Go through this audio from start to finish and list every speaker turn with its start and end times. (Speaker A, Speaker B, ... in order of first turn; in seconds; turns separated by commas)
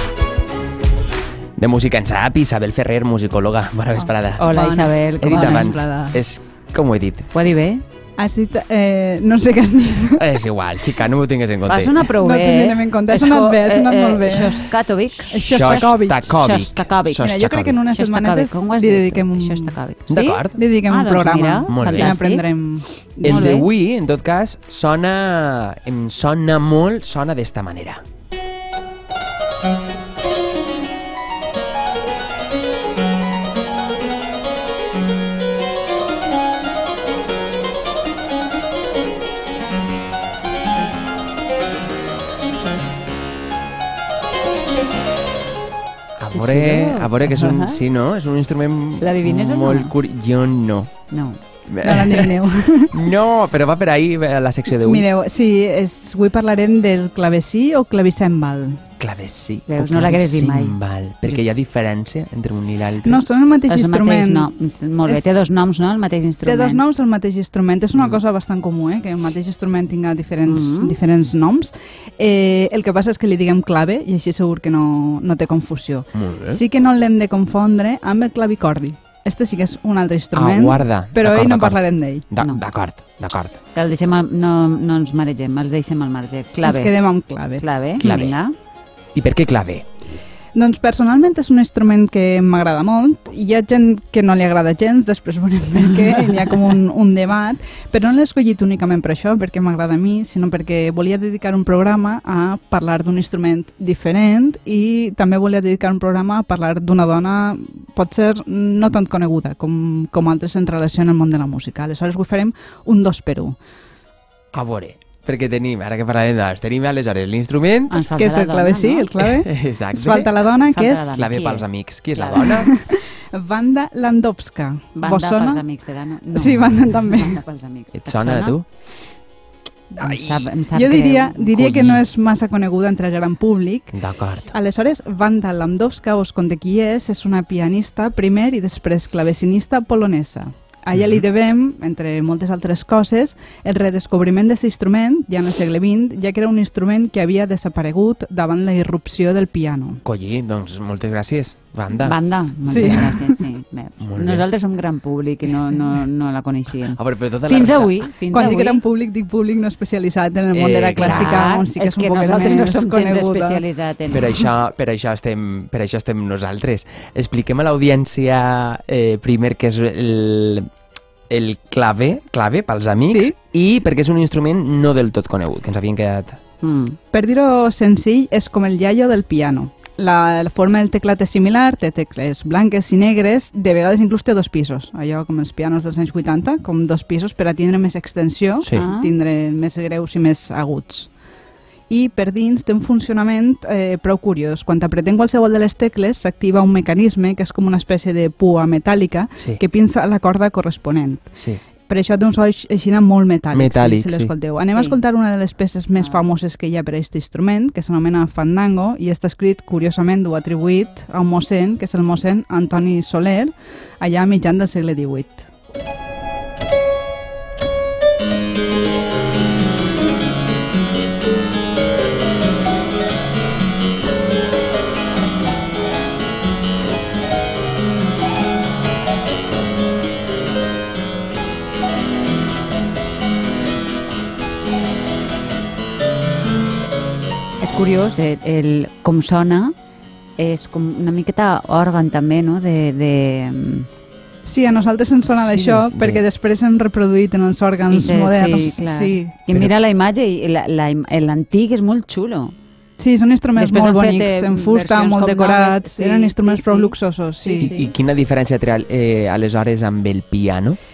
Speaker A: 1.6-4.5, Speaker B: 4.4-5.8, Speaker C: 4.4-6.2, Speaker A: 5.2-7.3, Speaker B: 7.3-7.8, Speaker C: 8.2-10.4, Speaker A: 10.2-12.1, Speaker B: 11.7-17.4, Speaker C: 12.1-14.8, Speaker C: 15.3-16.2, Speaker A: 15.4-17.8, Speaker C: 17.2-19.8, Speaker B: 17.9-22.5, Speaker A: 20.1-20.6, Speaker C: 20.6-23.5, Speaker A: 21.7-22.1, Speaker B: 23.2-23.7, Speaker A: 23.2-28.0, Speaker A: 46.2-50.9, Speaker B: 46.3-47.8, Speaker B: 49.0-49.9, Speaker B: 51.1-51.4, Speaker A: 51.7-55.1, Speaker C: 51.8-53.1, Speaker C: 54.7-58.8, Speaker A: 59.0-63.2, Speaker B: 59.7-60.8, Speaker C: 63.0-64.5, Speaker B: 63.7-66.8, Speaker C: 66.4-82.3, Speaker B: 70.5-71.0, Speaker A: 76.1-76.6, Speaker A: 80.3-83.6, Speaker B: 82.4-82.7, Speaker B: 83.8-87.0, Speaker C: 86.6-88.2, Speaker B: 87.6-88.5, Speaker A: 88.0-88.3, Speaker A: 89.2-89.9, Speaker C: 90.5-113.6, Speaker A: 114.5-118.0, Speaker B: 117.9-119.1, Speaker C: 118.2-121.1, Speaker A: 119.2-120.3, Speaker B: 120.6-122.7, Speaker A: 121.1-122.8, Speaker C: 122.4-125.6, Speaker B: 125.0-128.6, Speaker C: 126.3-127.4, Speaker A: 128.0-128.7, Speaker B: 129.9-131.7, Speaker C: 130.0-134.0, Speaker A: 131.6-132.0, Speaker A: 133.9-134.5, Speaker C: 134.5-150.0, Speaker A: 140.9-141.2, Speaker A: 150.1-152.2, Speaker B: 152.0-158.8, Speaker C: 152.7-153.3, Speaker A: 152.7-153.1, Speaker A: 154.0-154.5, Speaker A: 156.9-158.1, Speaker C: 158.3-163.6, Speaker A: 160.5-161.5, Speaker B: 161.0-164.5, Speaker A: 164.1-170.7, Speaker A: 171.3-176.4, Speaker C: 173.0-173.3, Speaker B: 176.6-177.0, Speaker C: 177.1-191.1, Speaker B: 188.7-189.1, Speaker C: 191.9-215.5, Speaker A: 201.4-201.6, Speaker A: 203.5-204.3, Speaker B: 204.7-205.0, Speaker B: 206.0-206.2, Speaker B: 237.6-239.7, Speaker B: 240.4-243.9, Speaker C: 244.4-249.3, Speaker A: 245.4-246.2, Speaker B: 247.9-252.5, Speaker C: 253.0-257.7, Speaker B: 253.6-257.9, Speaker A: 257.6-260.8